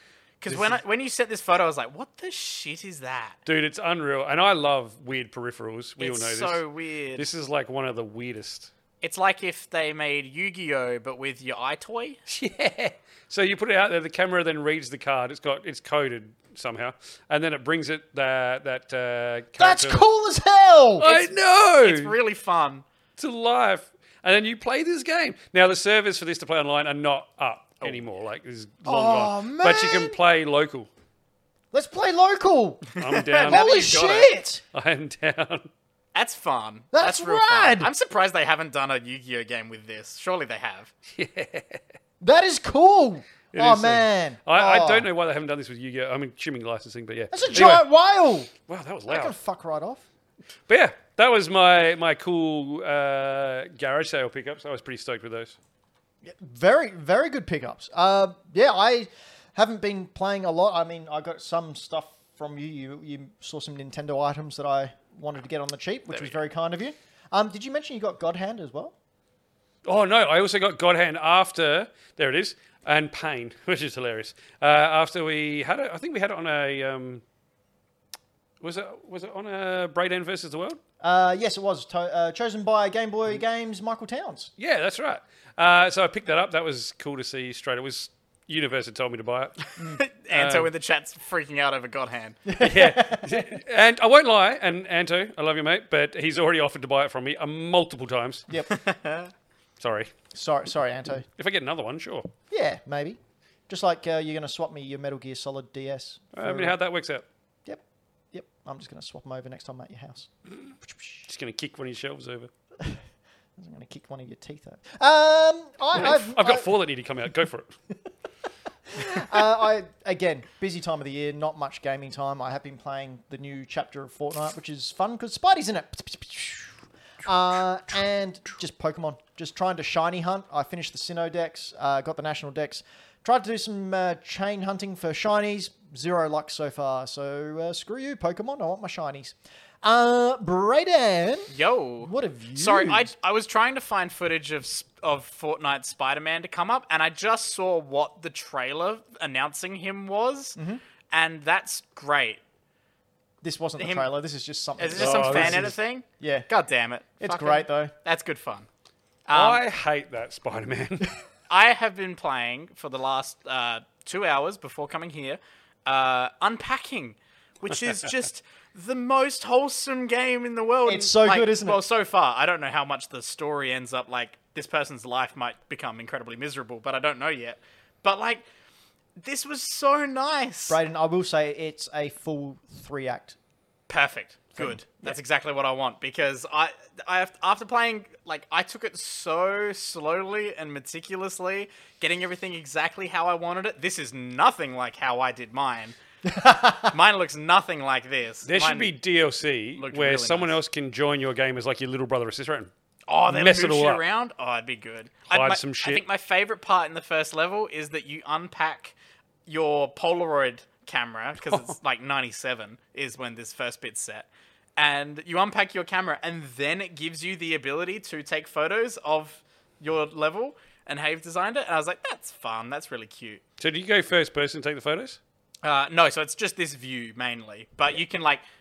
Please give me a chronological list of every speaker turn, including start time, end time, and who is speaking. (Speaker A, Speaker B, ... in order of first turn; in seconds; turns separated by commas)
Speaker A: 0.4-3.4, Speaker B: 0.5-0.8, Speaker B: 3.5-6.6, Speaker A: 6.0-7.3, Speaker B: 7.2-8.7, Speaker A: 9.0-12.2, Speaker B: 12.3-20.0, Speaker C: 19.6-21.1, Speaker B: 21.0-22.2, Speaker A: 21.0-22.9, Speaker B: 23.2-30.9, Speaker C: 28.9-30.2, Speaker C: 31.7-34.6, Speaker B: 33.0-34.0, Speaker A: 33.1-34.3, Speaker B: 34.7-35.7, Speaker A: 36.1-40.9, Speaker C: 36.9-37.9, Speaker B: 41.1-41.8, Speaker C: 42.2-45.1, Speaker B: 43.5-47.9, Speaker C: 47.3-48.5, Speaker B: 48.7-49.4, Speaker C: 49.1-50.0, Speaker B: 50.7-55.6, Speaker C: 56.2-68.9, Speaker B: 69.8-77.2, Speaker B: 78.6-80.8, Speaker C: 81.0-84.5, Speaker B: 84.6-90.7, Speaker A: 89.8-92.4, Speaker C: 92.5-93.6, Speaker B: 92.6-98.5, Speaker A: 98.7-99.3, Speaker B: 99.8-100.1, Speaker C: 100.3-101.3, Speaker B: 101.4-102.3, Speaker C: 102.5-106.8, Speaker B: 106.3-107.2, Speaker C: 107.7-110.3, Speaker B: 111.3-112.5, Speaker C: 113.6-116.8, Speaker B: 115.9-117.7, Speaker C: 118.9-141.5, Speaker A: 141.5-150.6, Speaker C: 142.0-143.1, Speaker A: 151.1-152.4, Speaker C: 153.4-156.5, Speaker A: 153.8-154.1, Speaker A: 154.8-158.7, Speaker B: 154.9-155.8, Speaker C: 157.2-157.9, Speaker A: 159.3-159.6, Speaker B: 159.3-161.1, Speaker A: 161.5-178.4, Speaker C: 170.8-171.8, Speaker A: 179.2-180.8, Speaker C: 180.7-183.4, Speaker A: 183.9-196.0, Speaker C: 184.6-185.2, Speaker C: 196.2-196.9, Speaker A: 196.8-199.0, Speaker B: 198.5-202.7, Speaker A: 199.8-200.5, Speaker A: 203.1-214.3, Speaker B: 203.3-204.0, Speaker B: 205.3-206.0, Speaker A: 214.8-223.4, Speaker B: 223.6-225.2, Speaker A: 225.6-228.4